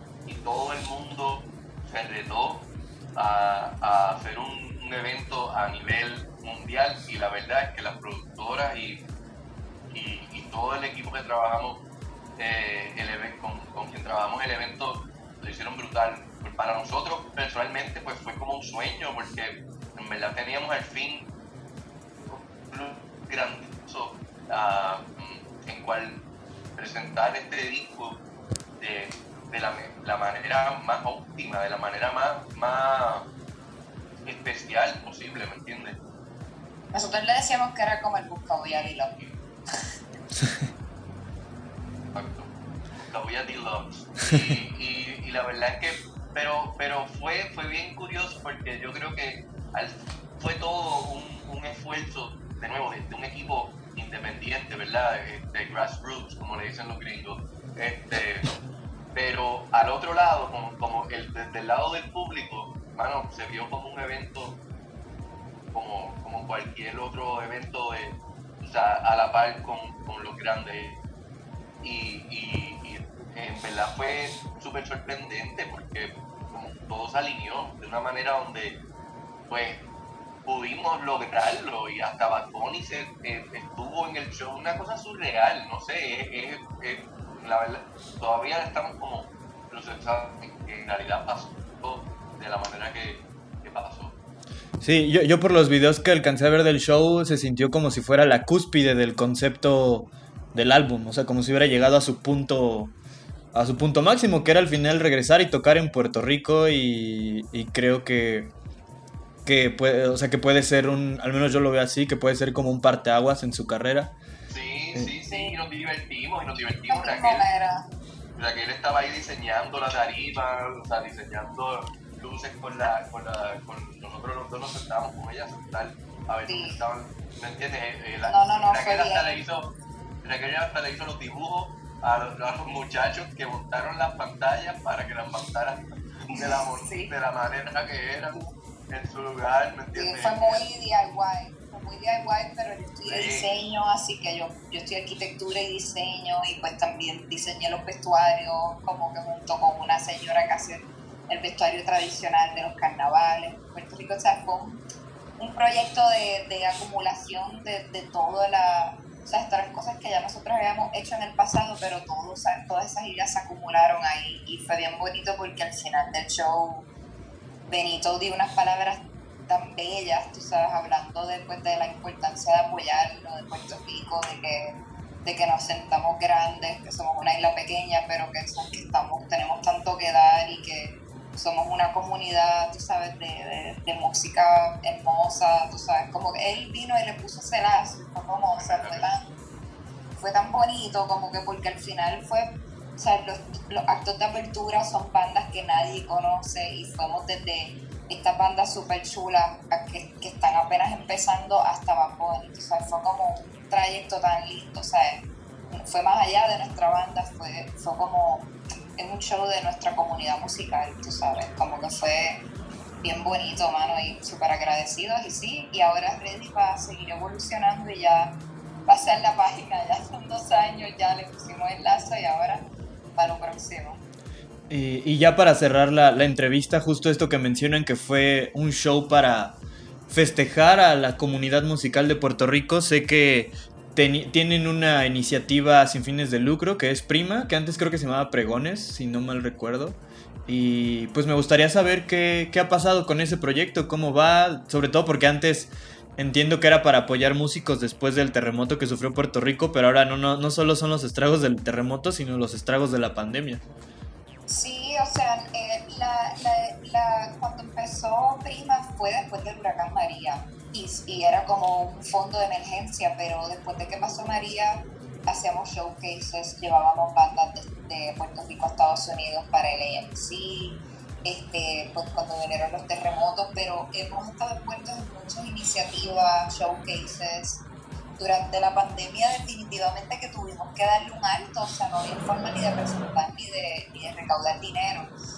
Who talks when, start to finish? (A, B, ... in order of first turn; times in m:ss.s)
0:00.2-0:09.0 A
0:09.9-0:11.8 A
0:12.4-0:21.2 A
0:22.2-0:26.2 A
0:26.8-0:28.2 A
0:28.8-0:33.3 A
0:34.2-0:36.0 A
0:36.9-0:39.1 B
0:38.6-0:39.4 A
0:42.1-0:58.5 A
0:59.1-1:04.6 A
1:05.7-1:11.0 A
1:11.8-1:18.8 A
1:19.5-1:19.8 A
1:20.4-1:34.1 A
1:34.8-1:42.9 C
1:43.5-1:48.5 C
1:49.4-1:54.1 C
1:54.5-1:57.4 A
1:55.3-1:55.6 B
1:56.9-1:57.9 B
1:58.4-2:20.6 A
2:06.4-2:06.8 B
2:08.2-2:09.4 B
2:16.4-2:17.1 B
2:19.9-2:34.8 B
2:23.1-2:23.5 A
2:35.4-2:46.8 B
2:47.7-3:09.3 B
3:08.5-3:09.1 A
3:10.2-3:32.4 B
3:33.0-3:38.3 B
3:38.8-3:44.0 B
3:44.7-3:49.6 C
3:50.1-4:13.6 C
4:14.5-4:37.6 B
4:38.2-4:45.1 B